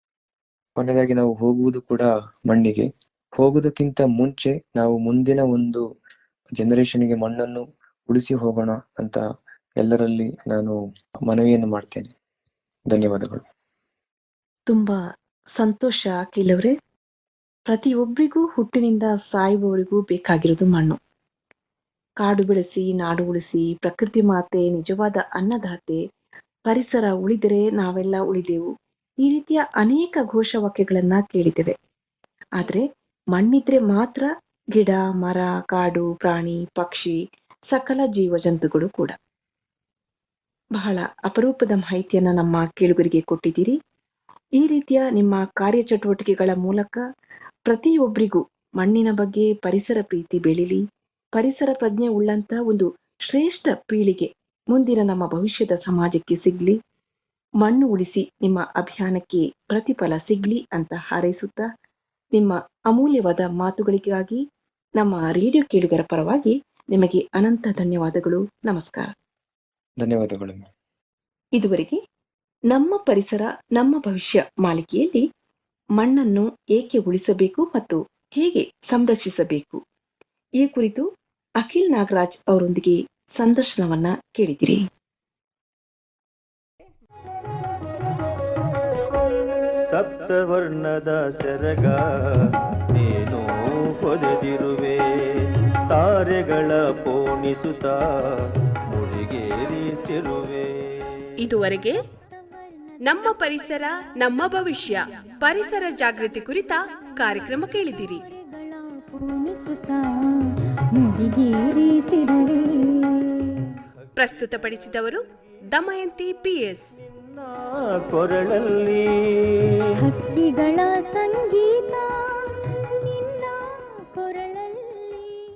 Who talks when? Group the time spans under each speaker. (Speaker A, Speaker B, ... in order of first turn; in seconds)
Speaker A: 0.8-5.8, 6.6-9.2, 9.8-10.8, 11.3-12.1, 12.9-13.4, 70.0-70.7
Speaker B: 14.7-15.0, 15.6-16.7, 17.7-21.0, 22.2-26.0, 26.7-28.7, 29.2-31.8, 33.4-37.1, 37.7-39.1, 40.8-43.8, 44.6-47.0, 47.7-50.8, 51.4-56.8, 57.6-61.7, 62.4-64.4, 65.0-69.1, 71.6-72.0, 72.7-75.2, 76.0-79.8, 80.6-81.0, 81.6-84.8
Speaker C: 89.8-101.3, 117.1-119.8
Speaker D: 101.4-102.0, 103.0-108.2, 114.2-116.9
Speaker E: 102.2-110.0, 111.0-113.5, 120.0-125.4